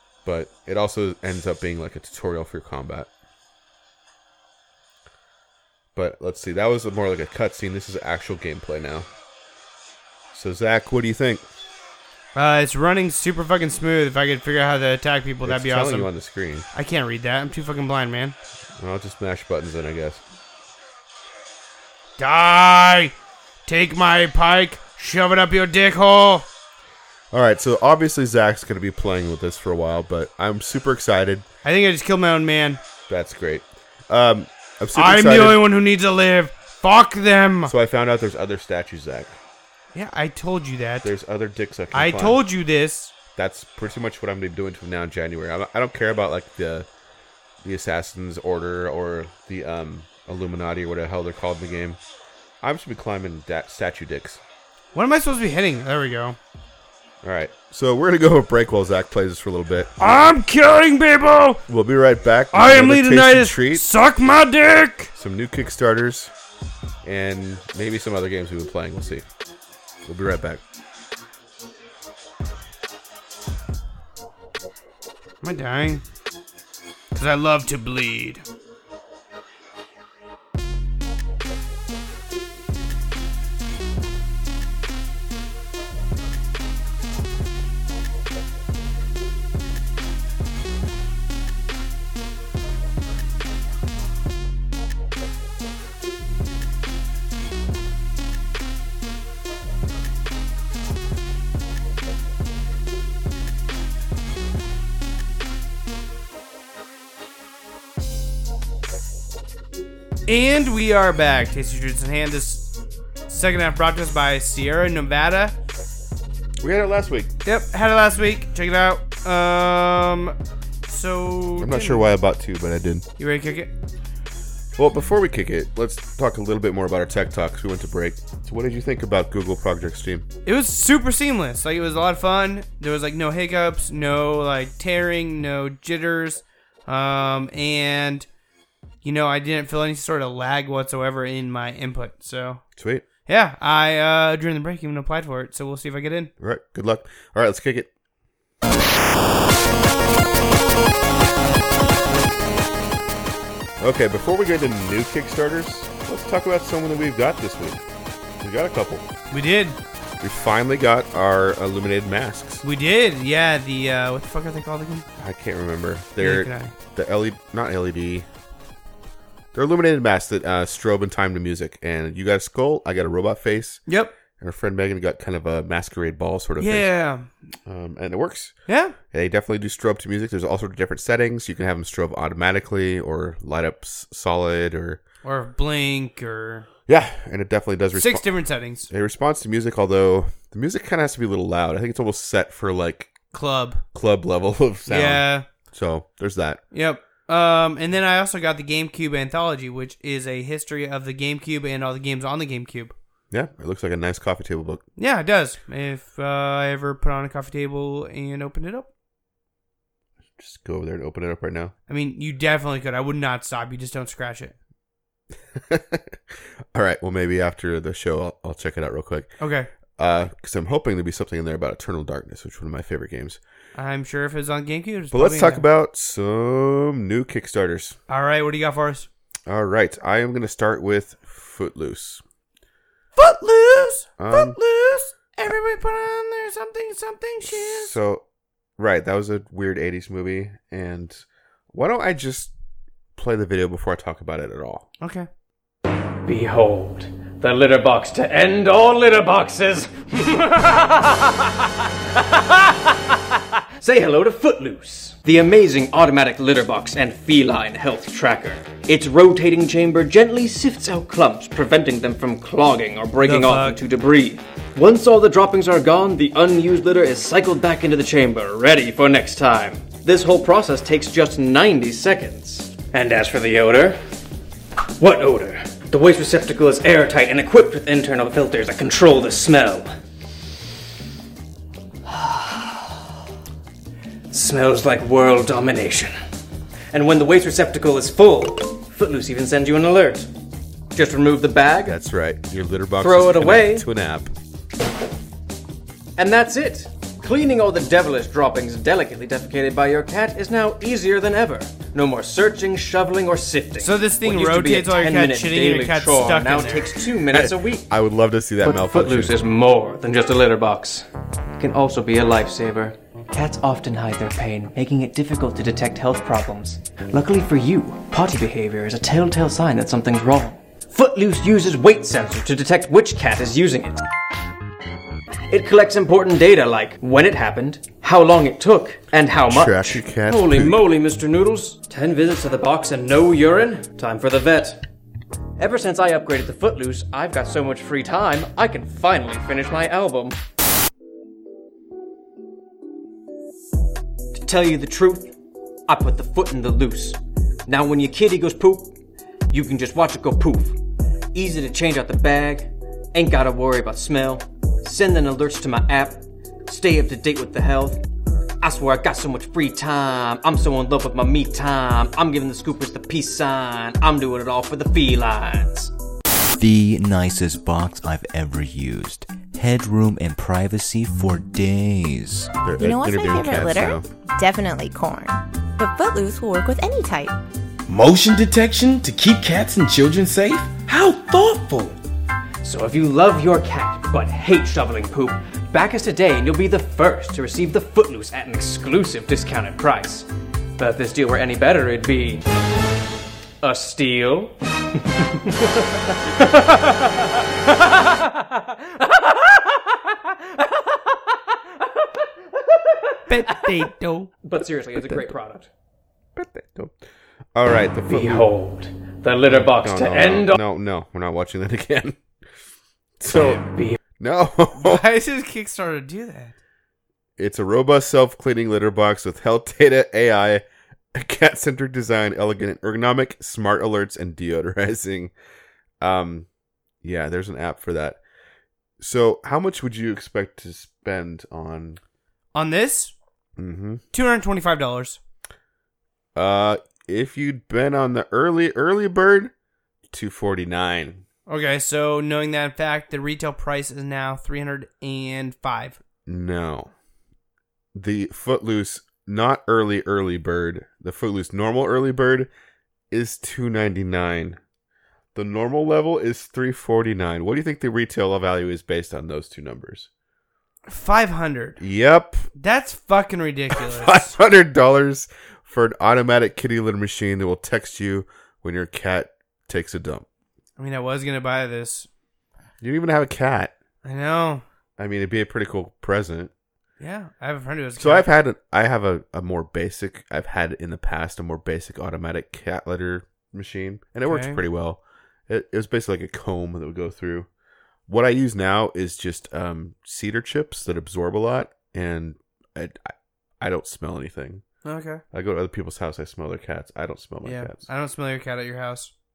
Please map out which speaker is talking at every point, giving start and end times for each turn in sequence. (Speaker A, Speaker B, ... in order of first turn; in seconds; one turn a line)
Speaker A: 0.2-3.1
Speaker A: 5.9-9.1
Speaker A: 10.3-11.4
Speaker B: 12.3-16.1
Speaker A: 15.4-16.7
Speaker B: 16.7-18.4
Speaker A: 18.8-20.2
Speaker B: 22.2-23.1
Speaker B: 23.6-26.4
Speaker A: 27.3-31.4
Speaker B: 31.6-32.8
Speaker A: 33.1-35.6
Speaker B: 34.9-37.7
Speaker A: 37.6-39.4
Speaker B: 39.9-41.1
Speaker A: 41.0-42.4
Speaker B: 41.9-43.1
Speaker A: 43.3-46.9
Speaker A: 47.6-52.0
Speaker A: 52.6-54.4
Speaker B: 54.9-56.4
Speaker A: 57.2-59.9
Speaker B: 60.0-61.6
Speaker A: 61.7-63.9
Speaker B: 62.5-65.1
Speaker A: 65.1-66.3
Speaker A: 67.0-69.2
Speaker A: 70.0-70.6
Speaker B: 75.4-76.0
Speaker B: 77.1-78.4
Speaker B: 110.3-112.7
Speaker B: 113.3-115.5
Speaker A: 116.6-117.3
Speaker B: 117.4-120.3
Speaker B: 120.9-122.1
Speaker A: 121.6-123.0
Speaker B: 123.2-123.7
Speaker A: 124.8-130.2
Speaker B: 130.4-138.2
Speaker B: 139.0-142.6
Speaker A: 142.8-143.0
Speaker B: 143.2-146.3
Speaker A: 146.4-147.9
Speaker A: 153.8-157.8
Speaker A: 158.4-159.0
Speaker B: 159.3-159.8
Speaker A: 160.2-162.6
Speaker B: 162.6-165.1
Speaker A: 165.2-168.3
Speaker B: 166.2-166.7
Speaker A: 169.5-173.8
Speaker B: 173.9-174.1
Speaker A: 174.4-176.9
Speaker B: 176.6-177.3
Speaker A: 177.7-178.5
Speaker B: 178.7-178.9
Speaker A: 179.1-185.0
Speaker B: 185.2-186.7
Speaker A: 186.9-193.1
Speaker B: 187.9-188.9
Speaker B: 193.3-193.8
Speaker A: 193.9-196.6
Speaker B: 194.9-195.4
Speaker B: 196.7-202.9
Speaker A: 203.3-204.8
Speaker B: 205.0-208.9
Speaker A: 210.4-211.7
Speaker B: 211.9-214.5
Speaker A: 215.5-219.3
Speaker B: 219.4-219.7
Speaker A: 220.0-223.4
Speaker B: 223.7-225.6
Speaker A: 225.1-228.0
Speaker B: 228.1-229.1
Speaker A: 229.5-232.2
Speaker B: 233.2-237.9
Speaker A: 234.2-234.6
Speaker A: 237.4-238.2
Speaker A: 238.8-242.5
Speaker A: 243.2-244.8
Speaker B: 245.0-245.3
Speaker C: 246.2-274.0
Speaker B: 263.2-263.8
Speaker C: 275.0-279.9
Speaker C: 282.1-283.0
Speaker C: 284.3-286.1
Speaker C: 286.9-290.3
Speaker C: 290.9-292.0
Speaker A: 291.8-294.3
Speaker C: 293.0-293.9
Speaker C: 296.2-307.9
Speaker B: 303.8-307.0
Speaker A: 307.3-309.4
Speaker C: 308.6-311.1
Speaker C: 311.6-324.0
Speaker C: 325.5-334.8
Speaker A: 329.5-330.8
Speaker C: 335.6-340.4
Speaker C: 344.3-345.3
Speaker C: 345.9-348.9
Speaker C: 349.5-350.8
Speaker C: 351.3-358.0
Speaker C: 358.6-365.9
Speaker D: 366.5-372.6
Speaker A: 372.6-374.1
Speaker E: 372.7-377.4
Speaker F: 377.9-382.0
Speaker C: 382.6-392.4
Speaker C: 393.6-403.9
Speaker B: 403.3-404.3
Speaker C: 404.4-405.7
Speaker A: 406.3-407.0
Speaker A: 407.5-408.5
Speaker C: 408.1-410.6
Speaker A: 409.4-412.2
Speaker A: 413.2-413.6
Speaker C: 413.2-414.0
Speaker A: 414.2-415.0
Speaker B: 414.7-416.6
Speaker A: 417.4-420.6
Speaker A: 421.1-425.3
Speaker A: 426.0-426.5
Speaker A: 427.0-428.2
Speaker A: 429.0-432.0
Speaker B: 432.5-433.1
Speaker A: 433.6-434.0
Speaker B: 434.1-435.2
Speaker A: 436.4-439.5
Speaker A: 440.1-441.2
Speaker B: 441.5-446.0
Speaker A: 446.2-446.9
Speaker A: 447.9-452.5
Speaker A: 453.1-454.6
Speaker A: 455.3-460.1
Speaker B: 460.9-461.8
Speaker A: 461.8-462.4
Speaker B: 462.6-464.3
Speaker A: 463.7-470.2
Speaker B: 470.8-472.1
Speaker A: 472.8-473.7
Speaker B: 474.0-474.6
Speaker A: 475.0-476.5
Speaker B: 477.0-478.3
Speaker A: 478.0-487.5
Speaker B: 484.3-484.6
Speaker A: 488.1-494.6
Speaker B: 494.8-495.2
Speaker A: 495.3-497.9
Speaker B: 497.4-499.1